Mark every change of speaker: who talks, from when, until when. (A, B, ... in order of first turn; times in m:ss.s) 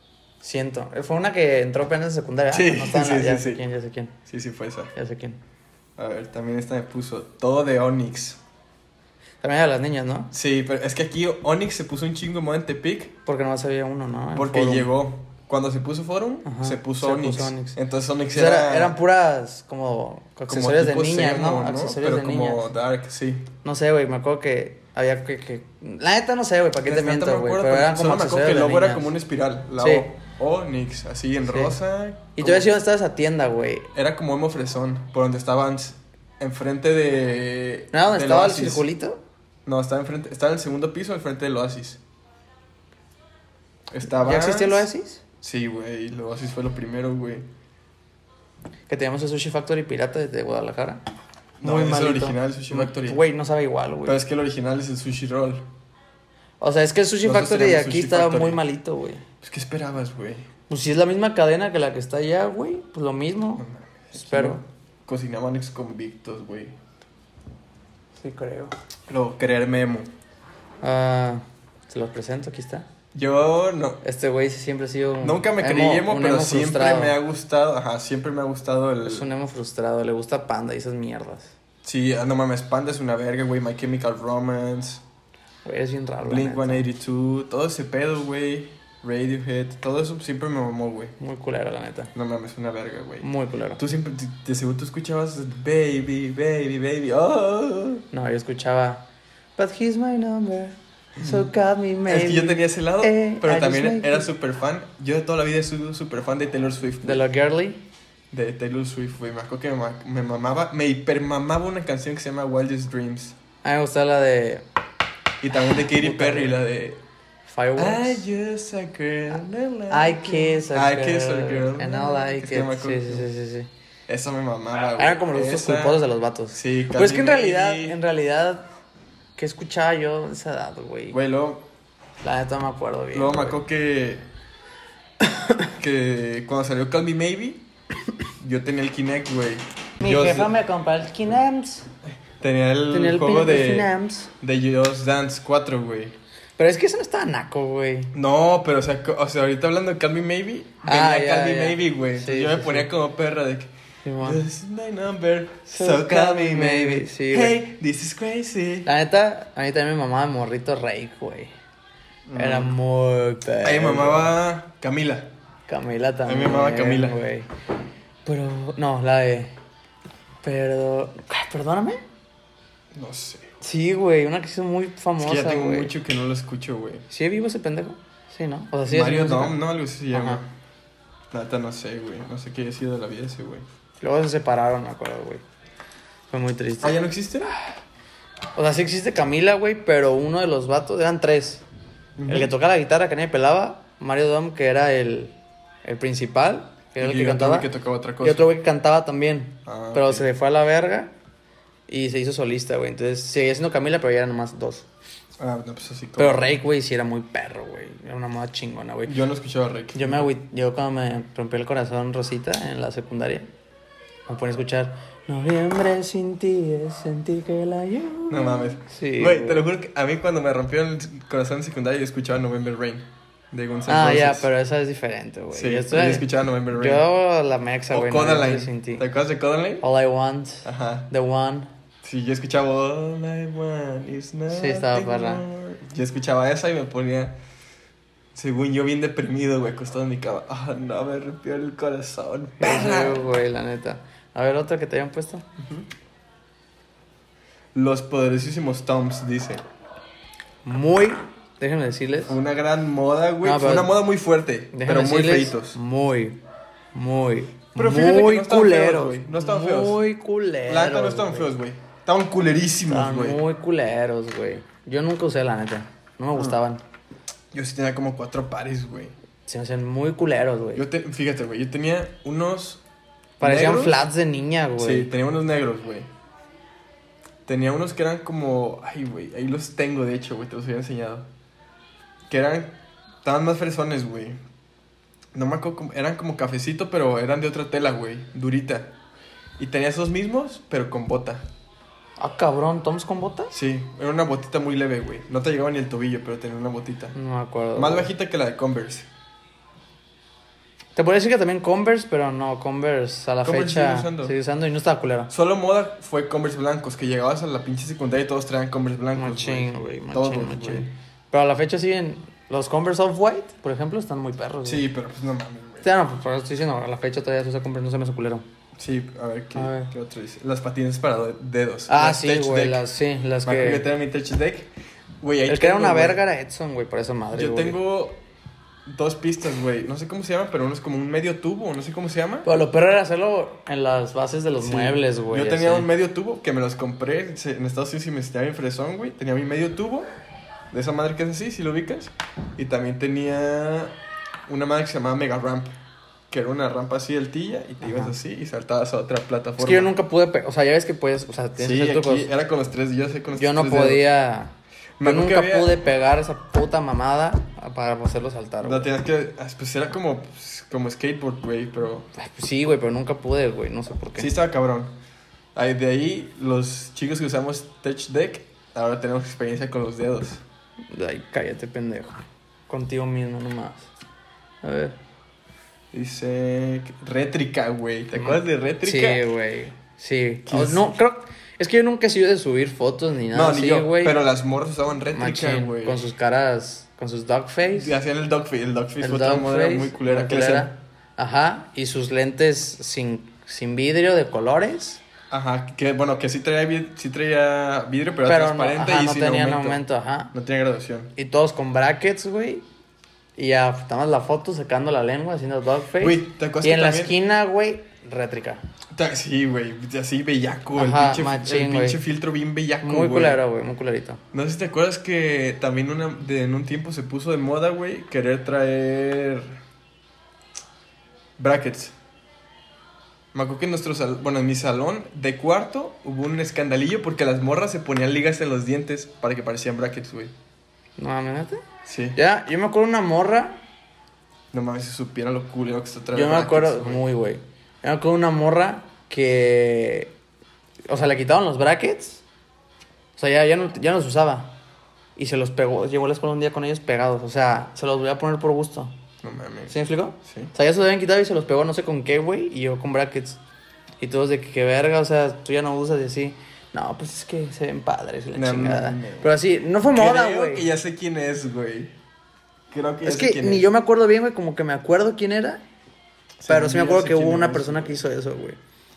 0:00.4-0:04.2 A
0:02.5-0:03.6 B
0:04.3-0:04.9 B
0:05.0-0:05.4 A
0:06.0-0:08.4 B
0:09.4-0:10.3 A
0:10.3-0:13.1 B
0:13.3-0:14.9 A
0:14.4-0:19.0 B
0:16.4-0:17.8 A
0:18.3-0:22.6 A
0:20.5-0:23.5 B
0:23.6-0:29.1 A
0:26.8-0:32.7 B
0:29.8-0:30.1 A
0:31.5-0:31.8 A
0:32.4-0:33.9 A
0:33.9-0:38.8 B
0:37.9-0:39.2 A
0:39.7-0:42.0 B
0:43.9-0:44.9 B
0:44.2-0:45.2 A
0:45.4-0:47.5 B
0:48.9-0:51.0 A
0:51.6-0:53.2 B
0:51.6-0:54.2 A
0:54.0-0:55.7 B
0:56.6-0:59.2 A
0:57.2-0:58.6 B
0:59.4-1:00.5 B
1:00.7-1:04.6 A
1:03.6-1:06.8 B
1:08.2-1:08.7 A
1:09.1-1:10.1 B
1:10.8-1:12.9 A
1:13.1-1:14.0 B
1:14.0-1:17.2 A
1:15.2-1:19.3 B
1:19.0-1:21.5 A
1:21.8-1:25.0 B
1:25.6-1:26.9 A
1:26.2-1:31.2 B
1:31.2-1:32.1 A
1:32.1-1:33.3 B
1:33.2-1:33.8 A
1:33.8-1:38.0 B
1:38.1-1:39.0 A
1:39.6-1:44.3 A
1:41.2-1:41.5 B
1:42.1-1:47.2 B
1:47.0-1:47.8 A
1:48.3-1:53.4 B
1:53.6-1:54.6 A
1:55.4-1:57.0 B
1:55.6-1:56.6 A
1:57.5-1:58.3 A
1:57.8-2:03.3 B
1:59.9-2:03.7 A
2:04.1-2:06.0 B
2:05.0-2:08.6 A
2:06.5-2:08.0 B
2:09.4-2:11.2 A
2:11.1-2:11.7 B
2:12.2-2:13.6 A
2:13.1-2:14.2 B
2:15.2-2:15.7 A
2:15.8-2:17.7 B
2:18.4-2:20.5 B
2:20.0-2:21.9 A
2:22.4-2:26.2 B
2:22.9-2:24.3 A
2:26.6-2:28.1 A
2:28.1-2:38.9 B
2:30.8-2:32.9 A
2:34.0-2:34.4 A
2:35.7-2:37.6 A
2:38.9-2:41.5 A
2:42.3-2:42.8 B
2:42.4-2:44.3 A
2:43.6-2:45.3 B
2:45.7-2:47.5 A
2:46.3-2:47.2 B
2:48.2-2:49.6 A
2:50.4-2:52.0 A
2:52.9-2:53.5 B
2:53.6-2:55.9 A
2:55.2-2:57.1 B
2:57.1-2:59.6 A
2:58.9-3:00.5 B
3:00.1-3:00.4 A
3:01.3-3:03.7 B
3:04.0-3:05.4 A
3:06.3-3:07.0 A
3:06.8-3:07.5 B
3:08.6-3:11.6 A
3:12.2-3:12.5 B
3:12.3-3:15.3 A
3:15.8-3:17.7 A
3:17.0-3:18.5 B
3:18.2-3:21.1 A
3:19.7-3:20.3 B
3:21.9-3:24.9 A
3:25.4-3:26.6 B
3:26.2-3:29.2 A
3:29.1-3:30.3 B
3:29.9-3:33.5 A
3:34.3-3:39.7 A
3:38.3-3:44.5 B
3:43.9-3:49.1 A
3:45.5-3:47.0 B
3:47.9-3:49.9 B
3:49.8-3:51.7 A
3:50.6-3:51.1 B
3:52.0-3:57.4 B
3:54.5-3:55.4 A
3:58.4-4:03.3 B
4:02.6-4:05.4 A
4:05.6-4:05.8 B
4:07.7-4:09.6 B
4:10.6-4:12.4 A
4:12.3-4:15.8 B
4:13.4-4:14.0 A
4:14.7-4:16.4 A
4:16.9-4:21.5 A
4:17.8-4:20.0 B
4:20.7-4:23.4 B
4:22.9-4:26.8 A
4:26.4-4:26.6 B
4:27.5-4:29.1 B
4:29.5-4:30.8 A
4:30.7-4:32.8 B
4:33.4-4:34.0 B
4:33.4-4:35.1 A
4:34.8-4:36.1 B
4:37.5-4:41.3 B
4:42.3-4:44.4 B
4:45.3-4:48.9 B
4:49.6-4:51.4 B
4:52.2-4:53.5 A
4:53.5-4:57.2 B
4:57.2-4:58.1 A
4:57.8-4:59.1 B
5:01.0-5:05.3 A
5:03.4-5:04.4 B
5:05.3-5:10.9 B
5:09.2-5:14.9 A
5:14.6-5:15.9 B
5:15.8-5:18.4 A
5:18.8-5:22.8 B
5:19.6-5:19.9 A
5:21.9-5:23.9 A
5:23.4-5:26.2 B
5:25.5-5:27.8 A
5:27.3-5:28.2 B
5:28.9-5:32.6 B
5:32.4-5:35.9 A
5:34.6-5:40.1 B
5:40.7-5:43.9 B
5:44.5-5:45.7 B
5:46.3-5:49.9 B
5:47.8-5:48.2 A
5:49.6-5:52.3 A
5:51.6-5:54.1 B
5:53.4-5:58.9 A
5:55.0-5:55.8 B
5:58.6-6:02.1 B
6:02.1-6:04.3 A
6:04.2-6:04.9 B
6:05.6-6:10.4 B
6:10.9-6:13.9 A
6:14.6-6:15.0 A
6:15.9-6:19.2 B
6:18.2-6:24.2 A
6:20.5-6:20.9 B
6:23.3-6:26.0 B
6:25.1-6:28.0 A
6:27.7-6:30.7 B
6:29.0-6:35.0 A
6:35.3-6:41.1 B
6:38.3-6:40.3 A
6:41.2-6:42.7 A
6:43.4-6:48.6 A
6:46.0-6:47.2 B
6:48.9-6:53.4 B
6:50.8-6:52.0 A
6:52.8-6:54.2 A
6:54.3-6:59.6 B
7:01.4-7:02.0 B
7:03.3-7:10.3 B
7:11.0-7:11.6 A
7:11.9-7:12.2 B
7:12.2-7:13.6 A
7:14.5-7:17.0 B
7:16.1-7:20.1 A
7:20.9-7:22.2 A
7:23.2-7:24.6 A
7:25.2-7:28.9 A
7:29.2-7:30.5 B
7:29.7-7:33.4 A
7:34.0-7:40.7 A
7:38.4-7:39.3 B
7:39.9-7:41.9 B
7:42.7-7:43.7 B
7:43.0-7:45.6 A
7:46.4-7:48.0 B
7:46.5-7:48.6 A